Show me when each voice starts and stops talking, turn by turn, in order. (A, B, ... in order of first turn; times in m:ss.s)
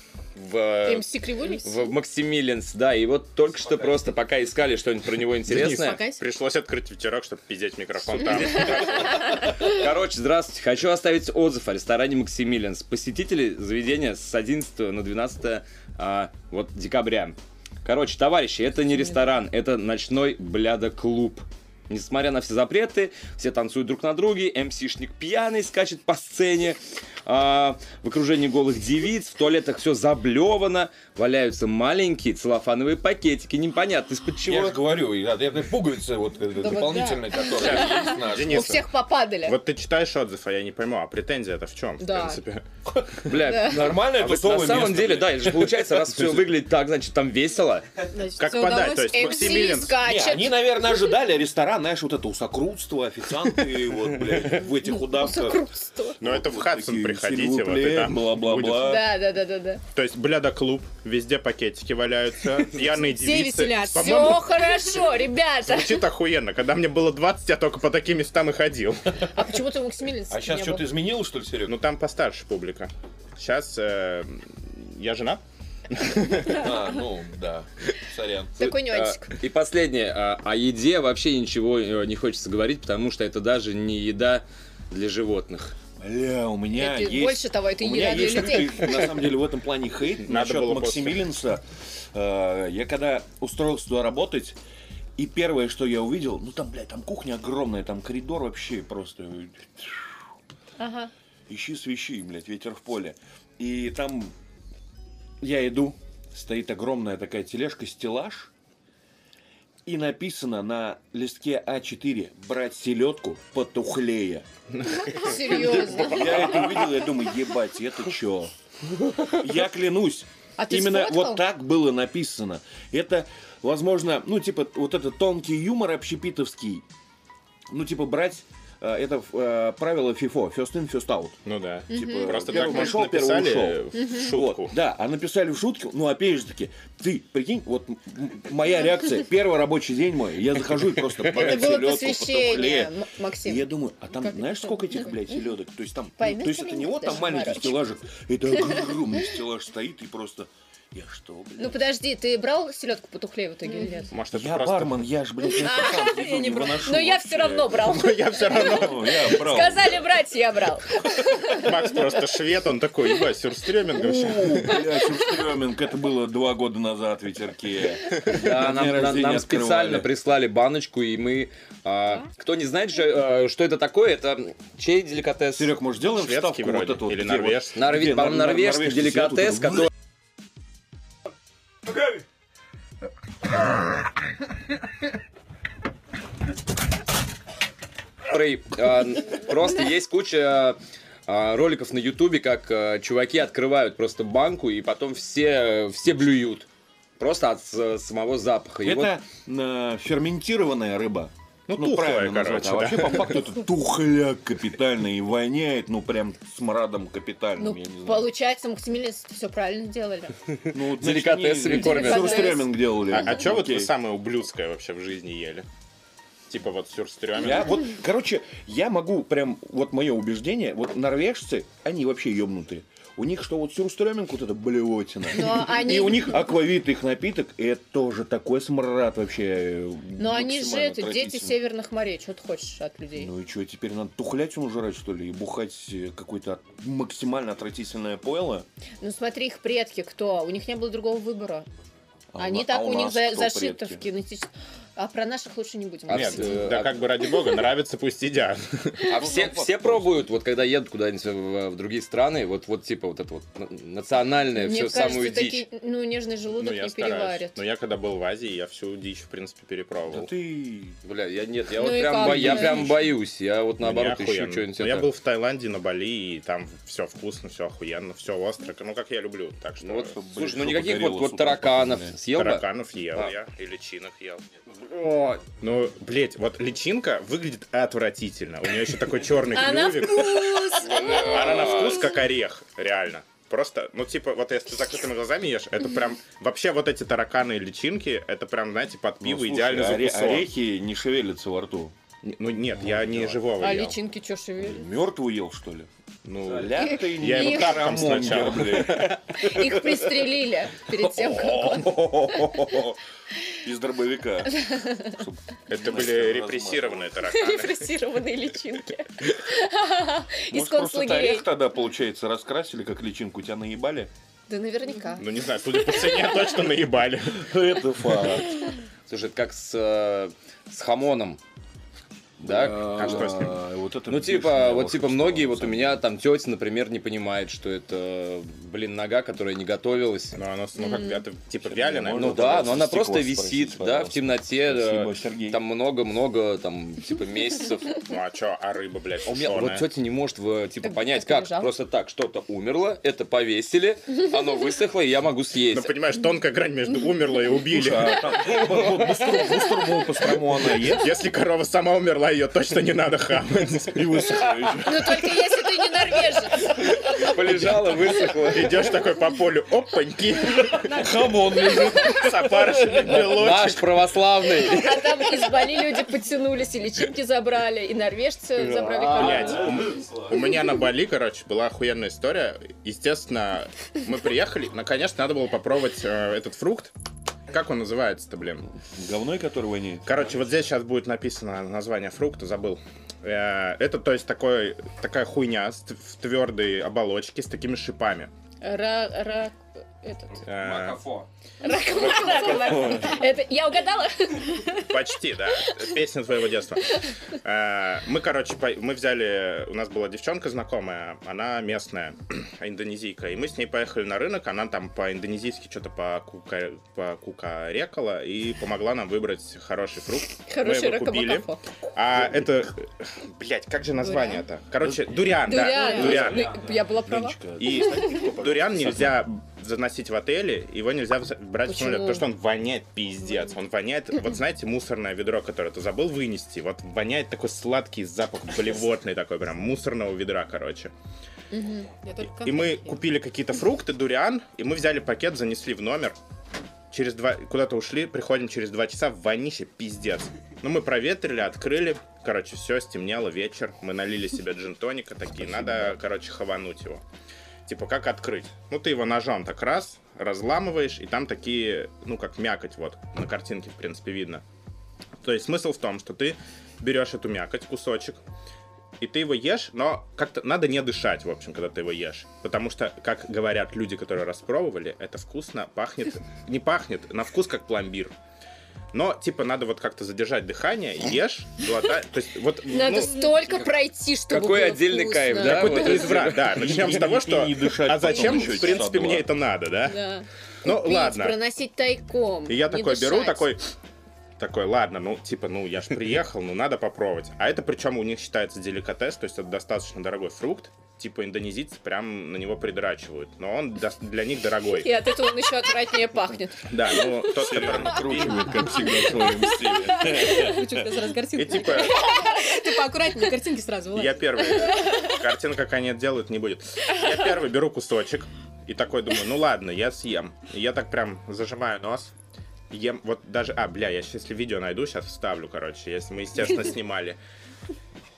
0:00.3-0:06.0 A
0:00.8-0:01.9 B
0:05.5-0:09.4 C
0:05.5-0:06.2 B
0:08.1-0:34.8 A
0:34.4-0:38.8 D
0:36.6-0:37.4 E
0:36.8-0:39.6 B
0:37.6-0:38.9 C
0:39.4-0:42.6 C
0:42.0-0:42.4 B
0:42.9-0:46.5 D
0:43.3-0:47.9 A
0:43.4-0:43.9 B
0:48.1-0:49.7 E
0:48.4-0:50.0 C
0:49.1-0:50.6 B
0:50.0-0:55.7 D
0:54.9-0:56.2 B
0:56.2-0:58.9 C
0:56.2-0:59.1 D
0:58.7-0:59.8 B
0:59.9-1:05.0 C
1:02.9-1:06.0 B
1:05.6-1:09.3 C
1:09.3-1:10.9 B
1:10.3-1:11.8 D
1:11.6-1:16.7 C
1:16.5-1:18.7 D
1:18.6-1:19.4 B
1:18.6-1:25.8 A
1:26.0-1:34.6 D
1:26.7-1:29.1 B
1:30.2-1:31.2 C
1:35.2-1:40.2 D
1:40.8-1:41.1 B
1:41.5-1:44.3 D
1:45.4-1:48.5 D
1:49.8-1:54.5 D
1:54.7-1:56.8 C
1:55.0-1:56.8 B
1:55.8-1:58.5 D
1:59.3-2:06.8 D
2:00.6-2:01.4 B
2:07.7-2:31.9 D
2:11.4-2:14.8 C
2:11.9-2:13.0 B
2:13.9-2:14.3 B
2:21.3-2:23.7 B
2:24.2-2:25.4 B
2:26.2-2:27.8 B
2:31.6-2:34.1 B
2:34.1-2:35.0 C
2:34.3-2:37.9 D
2:35.4-2:41.9 B
2:37.8-2:39.6 C
2:38.5-2:40.1 D
2:41.5-2:44.8 C
2:44.0-2:50.1 D
2:48.3-2:55.7 A
2:55.5-2:59.9 D
2:56.1-2:57.8 C
2:57.8-2:59.9 A
3:08.3-3:16.7 A
3:17.2-3:19.1 A
3:18.8-3:28.3 D
3:21.7-3:23.5 C
3:27.6-3:30.4 B
3:30.7-3:33.9 D
3:30.9-3:32.6 A
3:31.7-3:32.7 B
3:33.0-3:35.6 C
3:36.5-3:37.8 C
3:37.4-3:51.6 D
3:45.3-3:46.6 B
3:50.2-3:53.3 B
3:53.2-3:58.7 D
3:59.0-4:01.7 B
4:02.3-4:04.0 D
4:02.4-4:07.6 B
4:06.1-4:07.0 A
4:06.1-4:09.1 C
4:09.0-4:15.6 A
4:09.1-4:10.3 D
4:14.5-4:17.6 B
4:16.5-4:20.3 C
4:20.1-4:21.0 D
4:21.0-4:25.1 A
4:21.7-4:23.1 B
4:23.8-4:30.2 C
4:29.8-4:32.6 A
4:30.1-4:32.2 D
4:32.3-4:34.4 C
4:34.8-4:35.4 A
4:35.6-4:50.5 C
4:39.5-4:42.1 B
4:40.7-4:42.1 A
4:49.2-4:51.9 D
4:52.2-4:54.0 C
4:52.8-4:53.4 D
4:53.6-4:54.8 B
4:54.6-4:55.9 D
4:56.2-4:59.4 C
4:56.4-4:56.8 A
4:56.5-4:59.5 D
4:56.8-4:58.2 B
4:59.4-5:02.8 B
5:00.9-5:03.0 D
5:03.5-5:07.1 D
5:04.6-5:05.1 B
5:05.7-5:07.9 C
5:07.3-5:11.5 B
5:10.5-5:14.1 D
5:14.5-5:16.5 B
5:15.2-5:17.5 C
5:17.3-5:18.5 D
5:19.1-5:21.4 A
5:22.4-5:23.5 A
5:22.4-5:26.0 D
5:22.8-5:23.6 C
5:24.1-5:30.4 A
5:30.3-5:32.7 C
5:30.8-5:31.2 B
5:31.6-5:35.6 D
5:32.1-5:38.0 A
5:38.0-5:39.8 C
5:39.2-5:45.9 A
5:40.8-5:41.7 B
5:45.7-5:48.2 C
5:47.7-5:51.1 D
5:48.3-5:49.7 A
5:50.8-5:54.4 C
5:53.9-5:55.3 D
5:54.8-5:57.1 B
5:57.0-5:59.0 A
5:58.5-6:01.1 C
6:00.7-6:03.6 D
6:01.8-6:03.9 C
6:03.0-6:05.7 A
6:04.6-6:09.7 B
6:08.6-6:10.0 A
6:09.1-6:16.9 C
6:09.1-6:10.4 D
6:17.5-6:18.6 C
6:18.9-6:20.2 D
6:20.0-6:28.3 C
6:28.6-6:30.4 B
6:30.3-6:31.3 A
6:30.5-6:31.0 C
6:31.6-6:35.0 B
6:31.8-6:33.0 A
6:32.1-6:32.8 C
6:32.6-6:33.1 D
6:34.9-6:56.5 C
6:50.4-6:51.8 B
6:54.0-6:54.4 B
6:54.8-6:59.2 D
6:55.4-6:58.0 B
6:55.8-6:56.1 E
6:57.5-7:10.9 C
7:01.6-7:02.3 B
7:11.5-7:11.9 B
7:12.0-7:13.0 E
7:12.2-7:16.2 C
7:16.9-7:27.0 C
7:27.6-7:34.4 C
7:35.2-7:38.2 C
7:39.0-7:48.1 C
7:48.9-7:53.4 C
7:52.7-7:56.3 B
7:53.4-7:53.7 A
7:54.3-7:56.7 A
7:55.4-8:00.0 C
7:56.2-7:59.3 D
7:58.0-7:59.1 B
7:59.8-8:03.5 B
8:00.6-8:01.4 C
8:02.5-8:03.6 C
8:04.4-8:14.9 C
8:14.7-8:17.1 B
8:16.7-8:18.6 C
8:17.3-8:20.6 D
8:18.3-8:20.6 B
8:20.2-8:24.6 E
8:21.3-8:22.2 C
8:22.0-8:22.6 B
8:23.9-8:32.1 C
8:24.8-8:25.1 B
8:32.7-8:37.2 C